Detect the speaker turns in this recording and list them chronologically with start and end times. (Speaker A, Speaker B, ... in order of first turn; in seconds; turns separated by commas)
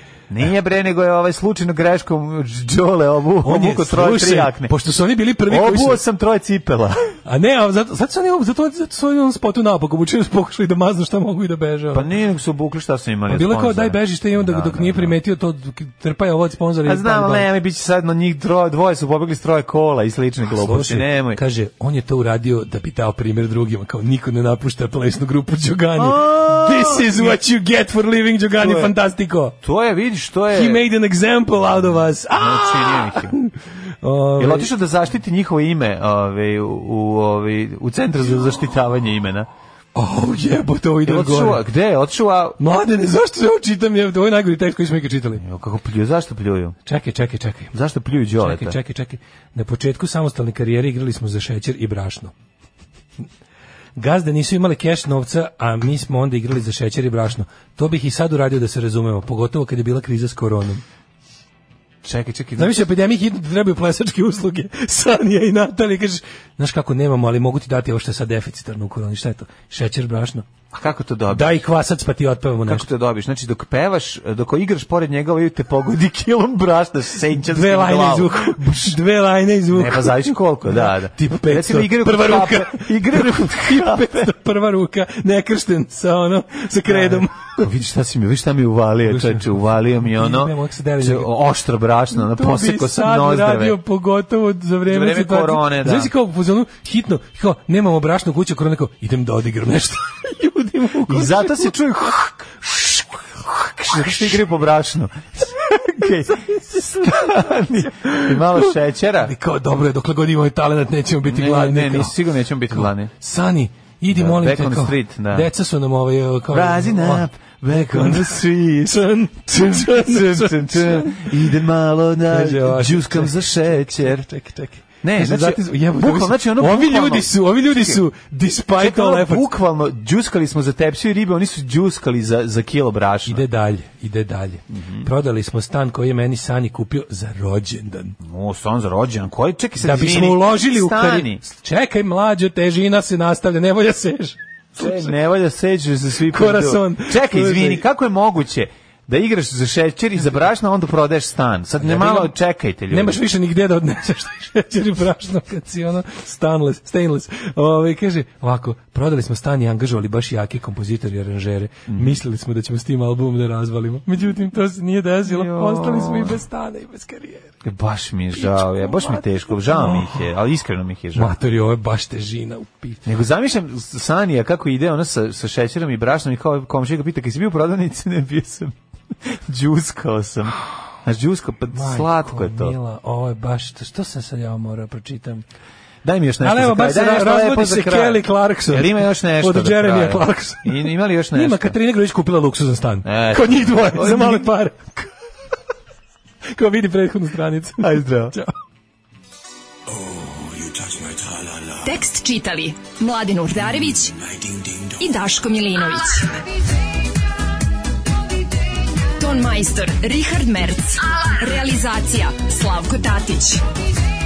Speaker A: 0.3-4.7, Speaker B: 3.4-6.0, Speaker A: 5.5-7.1, Speaker B: 7.2-12.1, Speaker A: 11.9-15.2, Speaker B: 13.3-17.5, Speaker A: 16.8-21.4, Speaker B: 20.6-29.6, Speaker A: 25.9-27.4, Speaker A: 28.6-28.9, Speaker A: 29.6-30.8, Speaker B: 30.5-34.7, Speaker A: 32.3-33.4, Speaker A: 34.4-39.5, Speaker B: 40.0-41.6, Speaker A: 41.0-42.6, Speaker B: 42.6-45.4, Speaker A: 45.4-46.7, Speaker B: 46.9-47.7, Speaker A: 47.7-48.8, Speaker B: 48.4-52.3, Speaker B: 54.0-60.8, Speaker A: 62.0-62.8, Speaker B: 62.6-70.5, Speaker A: 70.7-71.6, Speaker B: 71.3-72.9, Speaker A: 72.6-79.0, Speaker B: 77.4-87.6, Speaker A: 79.7-84.3, Speaker A: 86.8-93.8, Speaker B: 89.1-91.3, Speaker B: 92.1-104.4, Speaker A: 94.8-96.1, Speaker A: 101.0-102.8, Speaker A: 103.8-109.3, Speaker B: 106.5-112.1, Speaker A: 111.2-113.1, Speaker B: 112.7-121.5, Speaker A: 114.1-115.5, Speaker A: 116.5-124.2, Speaker B: 122.2-129.5, Speaker A: 125.0-128.0, Speaker A: 128.8-133.4, Speaker B: 133.3-138.2, Speaker A: 134.7-135.1, Speaker A: 138.2-141.4, Speaker B: 139.8-145.1, Speaker A: 144.8-153.2, Speaker B: 146.3-147.8, Speaker B: 151.8-152.3, Speaker B: 152.9-167.5, Speaker A: 161.9-162.2, Speaker A: 165.2-166.4, Speaker A: 167.6-171.3, Speaker B: 168.4-170.1, Speaker B: 171.1-173.1, Speaker A: 173.0-182.8, Speaker B: 181.7-185.4, Speaker A: 186.0-191.7, Speaker B: 186.4-195.1, Speaker A: 193.0-194.5, Speaker B: 196.5-198.5, Speaker A: 197.8-198.3, Speaker A: 200.6-201.5, Speaker C: 201.8-204.2, Speaker C: 205.0-206.4, Speaker C: 209.2-213.6